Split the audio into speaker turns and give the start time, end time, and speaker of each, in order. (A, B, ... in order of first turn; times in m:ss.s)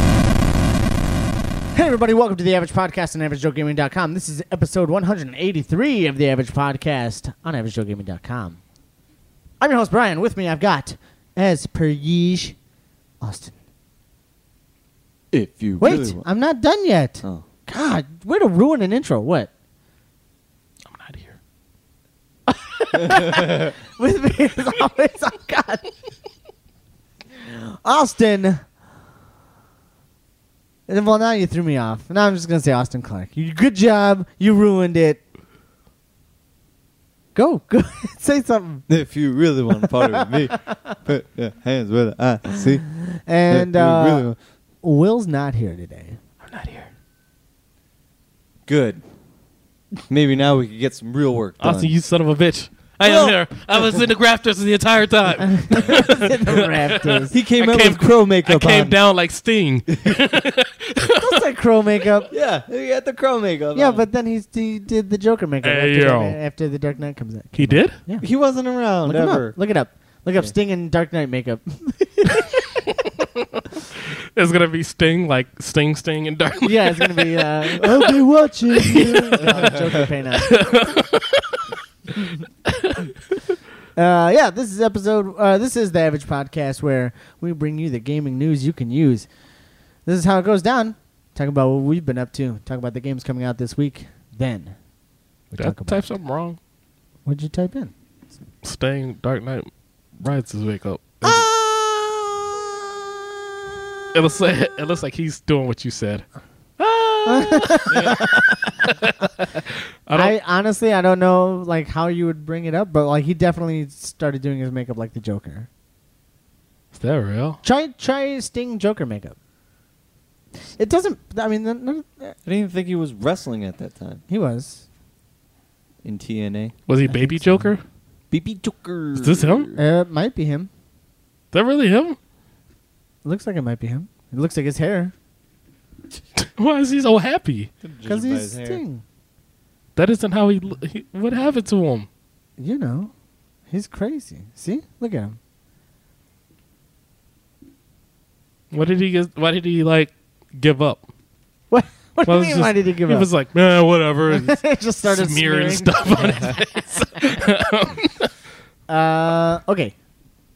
0:01.7-0:08.6 A
0:09.6-0:12.6 A
0:13.2-0:13.5 A
0:15.3-0:16.2 B
0:15.8-0:19.5 A
0:20.8-0:21.4 C
0:22.5-0:25.8 A
0:27.4-0:28.6 A
0:30.9-0:35.2 A
0:37.3-0:38.8 A
0:38.9-0:42.9 B
0:39.8-0:40.8 A
0:43.1-0:46.2 A
0:43.5-0:44.4 B
0:46.4-0:46.9 C
0:48.6-0:49.0 B
0:50.1-0:51.9 B
0:51.6-1:01.4 C
0:53.0-0:54.0 B
0:55.4-0:57.4 A
0:55.7-0:56.2 B
0:57.3-0:59.0 B
1:01.1-1:02.3 A
1:02.3-1:04.1 B
1:03.7-1:08.2 A
1:05.6-1:06.4 C
1:07.6-1:08.0 C
1:08.2-1:09.6 B
1:09.0-1:12.5 A
1:14.3-1:18.1 C
1:16.6-1:20.6 A
1:18.7-1:19.5 C
1:18.8-1:20.0 B
1:20.4-1:21.7 C
1:22.7-1:23.1 C
1:23.9-1:29.3 A
1:30.0-1:34.7 A
1:35.5-1:36.0 A
1:35.6-1:36.6 C
1:37.2-1:37.9 A
1:38.6-1:41.5 C
1:41.2-1:42.3 B
1:44.1-1:46.2 C
1:46.8-1:48.3 C
1:47.2-1:48.9 A
1:47.9-1:48.2 B
1:48.8-1:50.3 C
1:50.1-1:55.7 A
1:56.9-1:57.6 C
1:57.6-1:59.4 A
2:00.8-2:02.4 A
2:02.4-2:04.2 B
2:04.3-2:04.8 A
2:06.0-2:06.7 B
2:06.9-2:07.8 C
2:07.0-2:07.7 A
2:08.3-2:09.8 B
2:09.2-2:09.6 C
2:09.8-2:10.7 A
2:11.5-2:12.2 C
2:13.2-2:15.1 A
2:16.4-2:17.7 C
2:17.8-2:18.8 B
2:18.0-2:19.0 A
2:20.0-2:22.1 C
2:22.6-2:23.1 A
2:23.7-2:25.4 A
2:28.7-2:31.0 C
2:31.7-2:33.3 A
2:32.2-2:38.3 C
2:34.3-2:37.4 A
2:38.9-2:39.9 A